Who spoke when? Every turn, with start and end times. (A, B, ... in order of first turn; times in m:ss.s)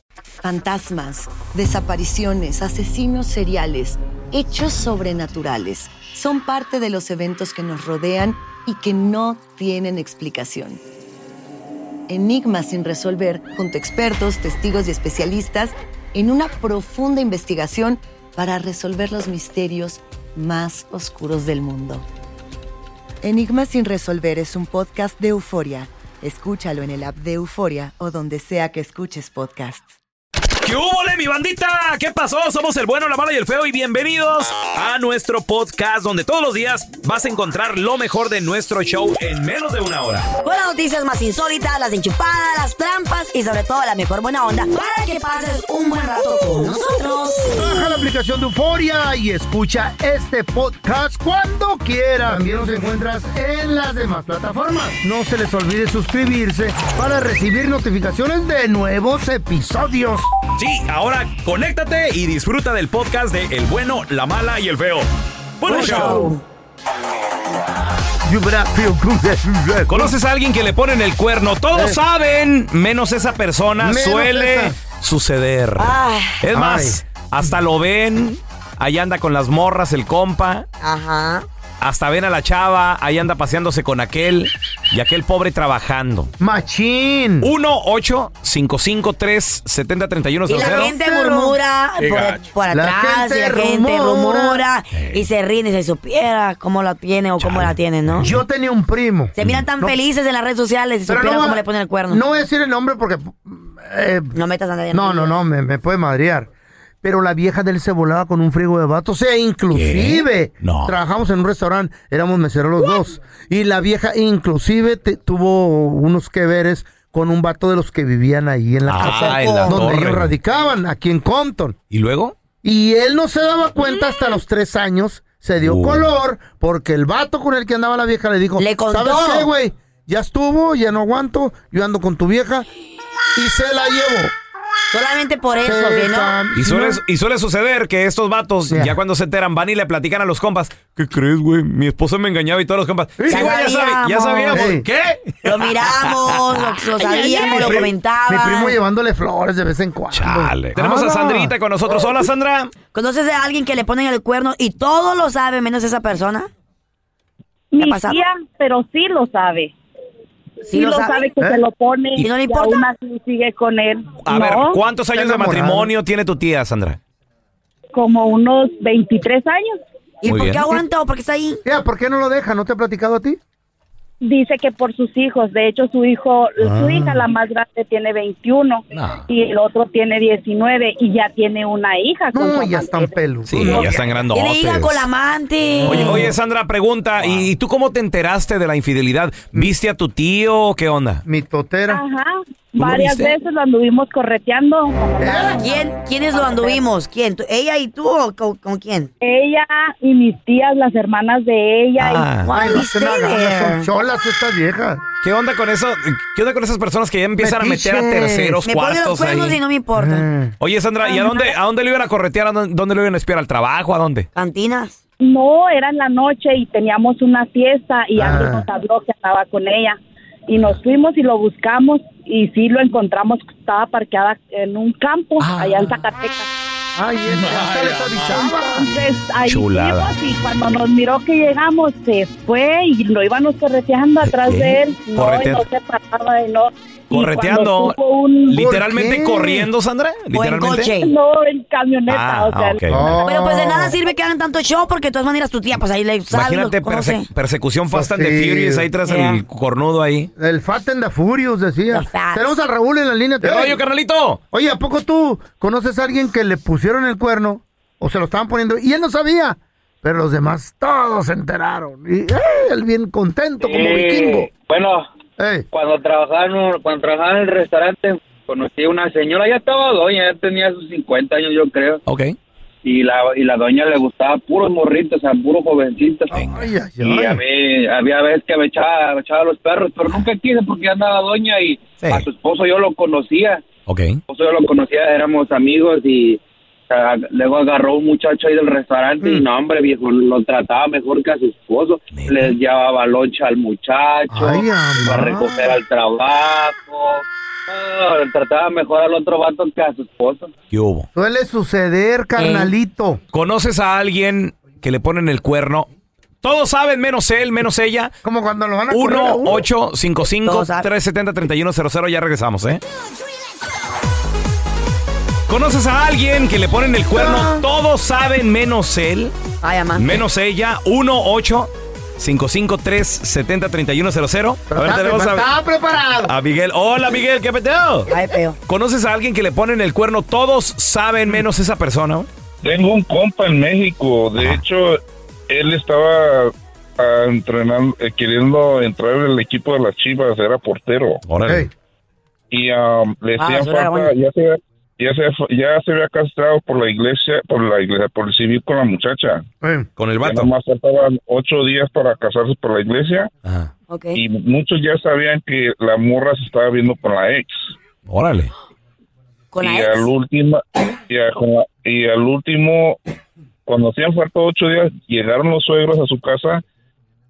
0:00.4-0:10.8 A
0:12.1-0:22.0 A
0:23.2-0:29.9 A
0:30.6-0:40.3 B
0:40.4-0:47.9 C
0:47.4-1:00.3 D
1:00.6-1:05.1 B
1:05.6-1:06.3 B
1:05.7-1:06.4 C
1:05.7-1:06.3 D
1:08.2-1:10.1 D
1:09.9-1:20.6 B
1:13.8-1:14.8 D
1:15.8-1:16.4 C
1:16.5-1:17.0 D
1:20.8-1:21.4 C
1:21.8-1:26.3 B
1:26.4-1:27.5 D
1:27.4-1:30.9 B
1:30.5-1:38.3 C
1:30.6-1:31.6 D
1:32.7-1:34.6 D
1:34.9-1:35.3 B
1:37.4-1:38.3 B
1:38.2-1:40.0 D
1:39.4-1:42.2 C
1:41.1-1:44.4 D
1:44.3-1:45.4 C
1:44.9-1:46.5 D
1:47.0-2:01.8 D
1:49.7-1:51.0 B
1:58.9-2:00.3 B
1:59.0-1:59.9 C
2:01.9-2:02.4 B
2:02.6-2:12.7 D
2:05.6-2:06.1 B
2:08.6-2:09.5 C
2:13.4-2:14.3 D
2:14.9-2:16.4 C
2:15.6-2:17.0 D
2:16.5-2:26.8 B
2:18.7-2:19.0 D
2:23.2-2:23.5 D
2:23.3-2:24.7 C
2:24.5-2:24.9 D
2:25.4-2:28.8 C
2:27.0-2:32.3 D
2:27.4-2:27.8 B
2:30.1-2:32.7 B
2:32.9-2:36.5 C
2:37.7-2:39.7 E
2:37.8-2:38.2 C
2:40.7-2:44.8 E
2:40.7-2:41.2 C
2:42.2-2:42.8 C
2:44.2-2:47.0 B
2:45.2-2:45.9 D
2:47.9-2:49.8 E
2:50.2-2:51.6 C
2:50.3-2:50.8 B
2:51.6-2:53.4 D
2:54.2-3:04.0 E
2:56.6-2:57.2 D
2:58.9-2:59.2 B
3:02.3-3:04.0 D
3:03.5-3:05.1 B
3:04.3-3:06.3 C
3:05.8-3:11.2 B
3:05.9-3:06.3 D
3:11.3-3:12.0 D
3:11.9-3:16.8 E
3:12.8-3:13.4 B
3:15.2-3:15.6 D
3:15.6-3:19.1 C
3:19.2-3:22.4 E
3:22.0-3:22.5 B
3:22.4-3:23.9 C
3:22.5-3:25.0 D
3:25.2-3:29.6 B
3:27.4-3:28.6 D
3:28.7-3:30.3 C
3:30.0-3:30.5 D
3:30.6-3:34.3 B
3:31.0-3:31.5 E
3:34.4-3:35.0 C
3:35.2-3:46.5 E
3:38.2-3:38.7 D
3:45.4-3:46.0 B
3:47.0-3:48.9 D
3:48.2-3:58.6 E
3:49.4-3:50.2 B
3:54.3-3:55.6 B
3:57.1-3:58.0 B
3:58.5-4:00.9 B
3:58.5-3:59.7 D
4:00.3-4:01.1 C
4:01.0-4:02.8 E
4:02.1-4:03.2 B
4:02.9-4:04.0 D
4:03.2-4:07.3 C
4:06.3-4:10.3 B
4:07.9-4:08.9 D
4:09.0-4:09.4 C
4:10.4-4:13.8 D
4:11.9-4:12.5 C
4:13.4-4:14.4 B
4:14.5-4:24.5 D
4:23.6-4:25.1 F
4:25.4-4:25.7 D
4:25.7-4:32.0 F
4:32.1-4:32.4 B
4:32.8-4:36.4 F
4:36.3-4:36.7 B
4:36.3-4:37.4 D
4:37.0-4:43.6 F
4:43.9-4:44.2 B
4:44.3-5:00.5 F
4:52.1-4:52.6 B
4:54.3-4:55.8 D
5:00.7-5:01.1 B
5:01.2-5:03.2 D
5:02.4-5:02.7 C
5:03.3-5:05.9 B
5:06.4-5:08.1 B
5:08.2-5:09.7 D
5:08.9-5:12.8 B
5:10.4-5:10.9 C
5:15.5-5:19.3 B
5:17.1-5:17.6 D
5:19.6-5:20.2 C
5:20.0-5:25.5 B
5:24.7-5:26.4 D
5:26.3-5:28.1 B
5:28.1-5:28.6 C
5:28.7-5:32.3 B
5:32.6-5:41.2 G
5:34.4-5:34.6 B
5:41.3-5:41.7 B
5:41.4-5:41.7 D
5:42.5-5:49.4 G
5:43.4-5:44.1 C
5:49.6-5:49.9 D
5:50.0-5:50.5 B
5:50.2-5:53.3 G
5:53.4-5:53.7 B
5:53.9-5:54.2 C
5:54.1-5:57.7 G
5:58.1-5:58.5 B
5:59.5-6:00.1 C
5:59.6-6:03.0 G
6:03.7-6:06.6 G